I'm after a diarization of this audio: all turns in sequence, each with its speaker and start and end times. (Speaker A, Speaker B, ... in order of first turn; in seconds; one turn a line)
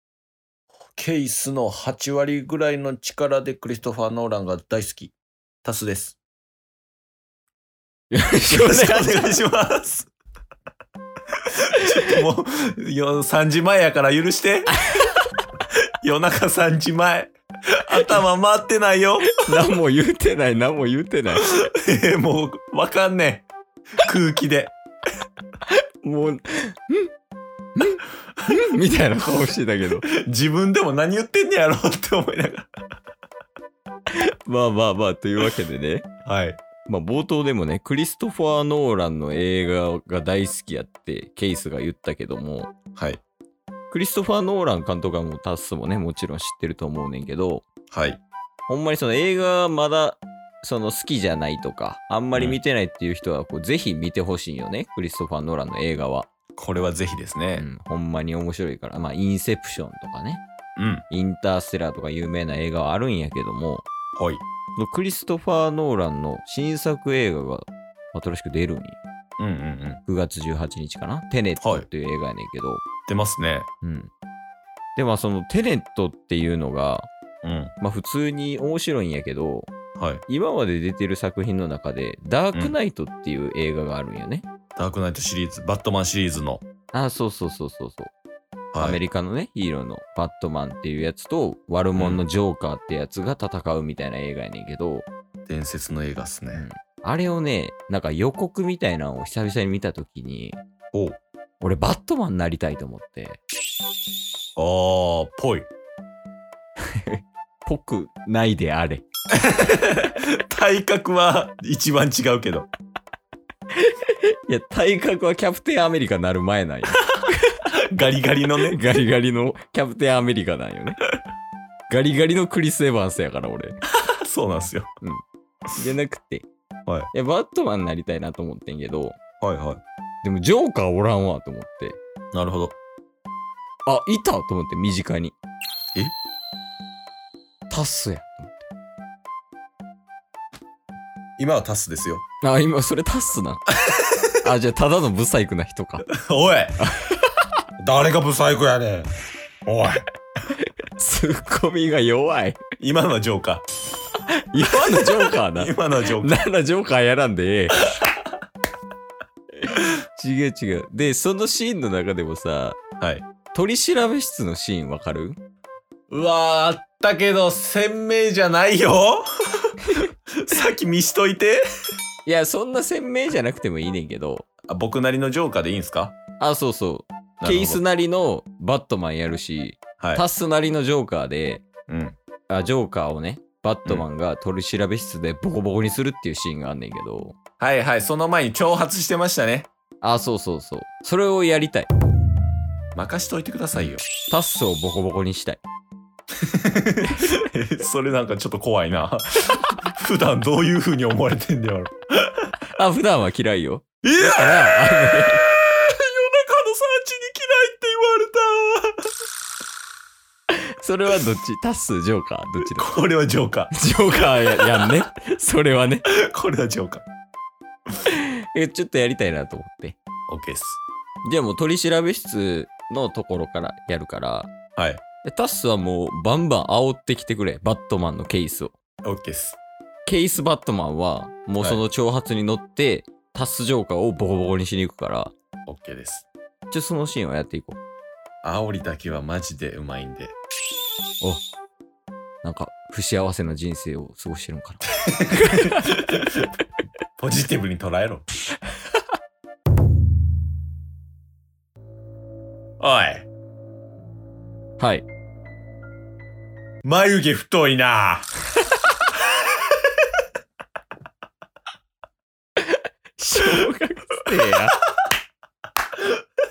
Speaker A: 0.9-6.2
Speaker B: 8.1-9.3
Speaker A: 8.5-10.1
Speaker A: 11.7-14.7
Speaker B: 14.9-15.2
Speaker A: 16.0-19.4
Speaker B: 19.3-21.5
Speaker A: 21.4-23.5
Speaker A: 24.0-24.7
Speaker B: 25.7-27.1
Speaker B: 27.8-30.1
Speaker A: 30.0-32.7
Speaker B: 34.1-36.0
Speaker A: 36.2-36.6
Speaker B: 36.9-42.7
Speaker A: 43.0-43.2
Speaker B: 43.9-47.6
Speaker A: 47.9-48.2
Speaker B: 48.7-56.3
Speaker A: 56.6-57.7
Speaker B: 57.6-60.4
Speaker A: 60.8-61.0
Speaker B: 61.1-63.9
Speaker A: 64.2-64.4
Speaker B: 64.8-69.0
Speaker A: 69.4-70.0
Speaker B: 70.1-72.8
Speaker A: 71.6-71.9
Speaker A: 73.1-73.7
Speaker B: 73.8-74.1
Speaker B: 75.0-77.1
Speaker A: 77.4-77.7
Speaker B: 77.8-79.7
Speaker A: 80.0-80.2
Speaker B: 80.3-84.5
Speaker A: 84.8-86.7
Speaker B: 86.9-88.1
Speaker A: 88.7-89.0
Speaker B: 88.8-95.1
Speaker A: 92.0-92.2
Speaker A: 95.5-96.7
Speaker B: 96.5-100.6
Speaker A: 100.9-101.2
Speaker B: 101.6-103.4
Speaker A: 104.6-105.7
Speaker B: 106.9-109.0
Speaker A: 109.3-112.7
Speaker B: 113.8-117.1
Speaker A: 117.7-118.8
Speaker B: 118.6-121.0
Speaker B: 121.9-123.8
Speaker A: 124.0-124.9
Speaker B: 125.0-126.5
Speaker B: 127.1-129.2
Speaker A: 129.4-129.8
Speaker B: 130.2-132.0
Speaker A: 132.3-132.8
Speaker B: 133.9-135.3
Speaker B: 137.7-138.7
Speaker A: 141.4-142.2
Speaker B: 142.4-143.6
Speaker A: 143.8-144.3
Speaker B: 144.4-146.1
Speaker A: 146.1-146.8
Speaker B: 146.9-147.3
Speaker A: 147.8-149.1
Speaker A: 149.7-150.1
Speaker B: 151.0-152.6
Speaker A: 152.8-153.6
Speaker B: 154.5-157.8
Speaker A: 154.8-156.3
Speaker B: 159.6-162.8
Speaker A: 163.0-163.3
Speaker B: 163.5-165.4
Speaker A: 166.1-171.6
Speaker B: 172.3-174.5
Speaker A: 174.7-176.2
Speaker B: 176.4-181.6
Speaker A: 177.4-177.8
Speaker A: 180.0-180.2
Speaker A: 181.9-182.2
Speaker B: 182.5-187.4
Speaker A: 187.6-189.7
Speaker B: 190.0-191.9
Speaker A: 192.9-194.0
Speaker B: 193.8-195.6
Speaker A: 196.4-202.5
Speaker B: 202.7-205.4
Speaker A: 204.0-209.1
Speaker B: 210.6-212.9
Speaker A: 212.7-213.8
Speaker B: 213.7-216.1
Speaker A: 214.4-215.0
Speaker A: 216.1-217.1
Speaker B: 218.1-220.0
Speaker A: 220.3-220.8
Speaker B: 221.3-224.5
Speaker A: 224.8-225.0
Speaker B: 225.2-228.7
Speaker A: 229.1-229.6
Speaker B: 230.1-235.3
Speaker A: 235.7-236.3
Speaker B: 236.7-237.8
Speaker A: 238.4-240.3
Speaker B: 242.4-245.9
Speaker A: 245.1-246.3
Speaker A: 247.2-248.2
Speaker A: 252.8-253.3
Speaker B: 254.8-255.1
Speaker A: 256.8-258.3
Speaker B: 262.6-264.8